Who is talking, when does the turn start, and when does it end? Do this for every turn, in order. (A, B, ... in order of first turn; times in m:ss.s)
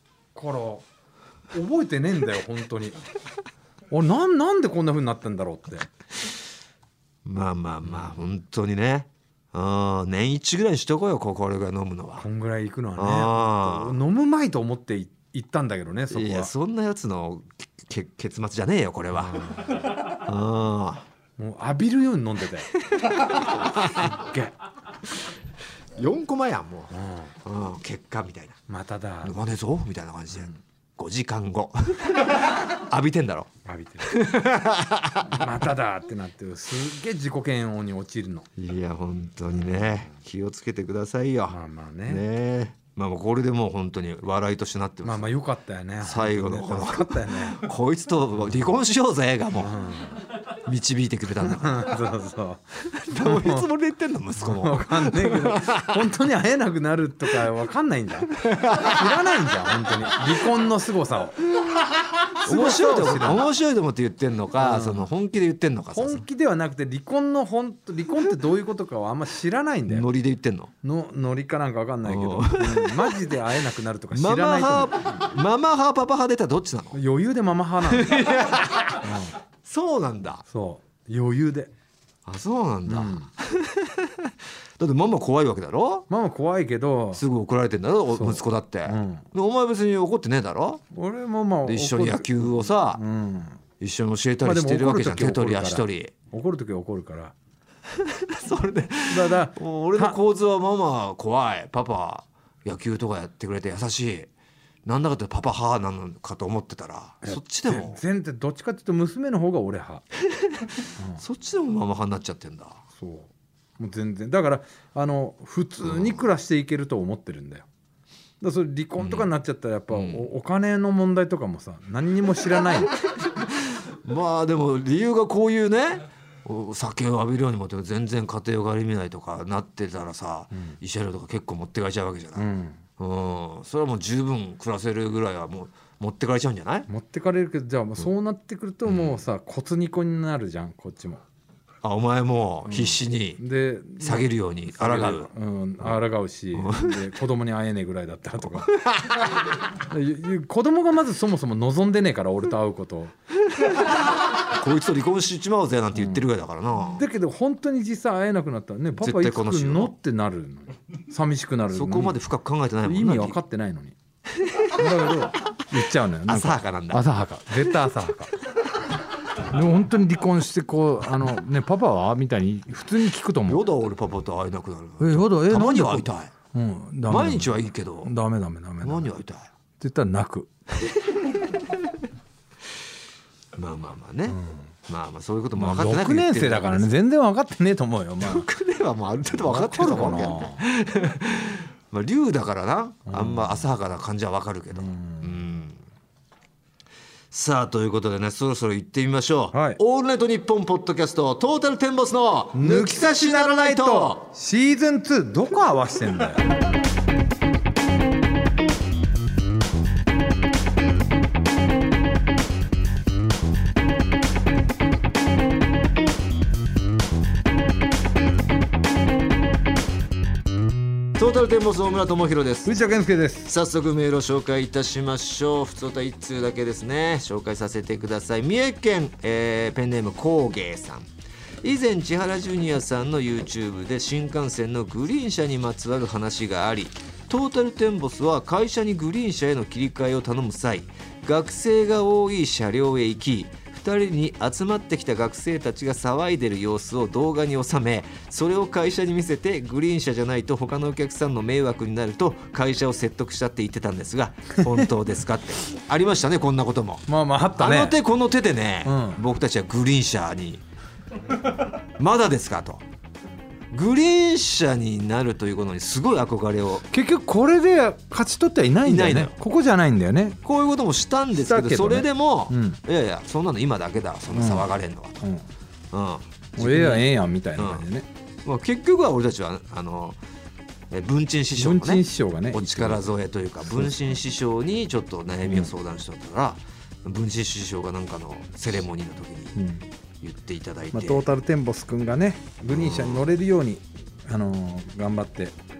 0:00.3-0:00.8 A
0:01.5-0:03.0 A
0:03.9-0:05.9 A
0:07.2-0:12.2 B
0:12.2-0:16.5 A
0:13.0-0:14.0 B
0:16.1-0:21.0 B
0:19.2-0:19.8 A
0:21.4-0:24.6 A
0:22.7-0:24.1 B
0:26.0-0:28.6 B
0:26.9-0:27.3 A
0:28.7-0:29.4 A
0:29.2-0:33.5 B
0:33.6-0:34.2 A
0:34.0-0:35.4 B
0:35.2-0:38.5 A
0:38.6-0:45.3 B
0:39.5-0:40.0 A
0:41.5-0:42.2 A
0:45.0-0:47.7 A
0:46.0-0:49.9 B
0:49.6-0:50.2 A
0:50.5-0:52.0 B
0:51.4-0:53.7 A
0:52.8-0:56.1 B
0:54.4-1:01.5 A
0:58.4-0:59.0 B
1:02.3-1:06.2 B
1:02.3-1:03.4 A
1:04.6-1:05.1 A
1:05.9-1:10.1 A
1:09.9-1:10.7 B
1:10.8-1:15.3 A
1:12.0-1:13.6 B
1:14.1-1:17.0 B
1:16.9-1:18.3 A
1:17.9-1:19.1 B
1:18.8-1:19.4 A
1:19.6-1:20.4 B
1:20.4-1:21.7 A
1:22.2-1:26.1 B
1:22.9-1:23.3 A
1:26.1-1:27.2 A
1:27.1-1:30.8 B
1:28.1-1:29.2 A
1:30.9-1:33.6 A
1:31.6-1:33.0 B
1:33.8-1:36.1 B
1:34.4-1:37.3 A
1:37.9-1:44.3 B
1:39.1-1:40.2 A
1:44.8-1:48.0 B
1:47.2-1:50.0 A
1:50.4-1:52.8 B
1:52.9-1:57.6 A
1:55.8-1:56.2 B
1:58.4-2:02.9 A
1:59.0-1:59.3 B
1:59.9-2:00.3 B
2:03.3-2:12.5 B
2:12.3-2:12.8 A
2:13.0-2:16.9 B
2:16.9-2:21.2 A
2:18.8-2:19.2 B
2:21.8-2:23.4 B
2:22.6-2:28.7 A
2:24.0-2:25.3 B
2:26.5-2:27.0 B
2:28.5-2:29.4 B
2:29.7-2:33.1 A
2:33.6-2:37.0 B
2:35.9-2:36.3 A
2:36.8-2:42.2 A
2:39.0-2:39.9 B
2:41.7-2:43.4 B
2:42.8-2:44.0 A
2:44.4-2:44.8 B
2:44.7-2:48.3 A
2:46.2-2:47.0 B
2:49.4-2:53.6 A
2:53.4-2:56.3 B
2:55.0-2:59.1 A
2:57.1-2:58.1 B
2:58.8-2:59.5 B
2:59.8-3:00.5 A
3:00.8-3:01.9 B
3:03.5-3:06.9 B
3:05.5-3:08.5 A
3:08.2-3:15.8 B
3:09.4-3:10.6 A
3:13.1-3:13.6 A
3:14.7-3:15.3 A
3:17.3-3:24.3 B
3:19.5-3:19.8 A
3:22.5-3:26.6 A
3:41.2-3:42.7 B
3:42.6-3:43.5 A
3:43.4-3:51.1 B
3:51.6-4:20.6 B
4:17.1-4:18.0 A
4:18.8-4:19.2 A
4:21.7-4:22.8 B
4:23.7-4:26.8 B
4:26.9-4:30.4 A
4:28.8-4:29.3 B
4:30.4-4:35.2 B
4:31.3-4:32.8 A
4:34.3-4:34.7 A
4:35.2-4:35.4 A
4:35.9-4:37.8 B
4:36.6-4:38.1 A
4:38.4-4:40.2 B
4:40.9-4:49.6 B
4:41.5-4:43.1 A
4:43.6-4:44.2 A
4:45.4-4:45.7 A
4:49.6-4:49.8 A
4:50.2-4:51.3 B
4:50.9-4:55.6 A
4:52.7-4:53.2 B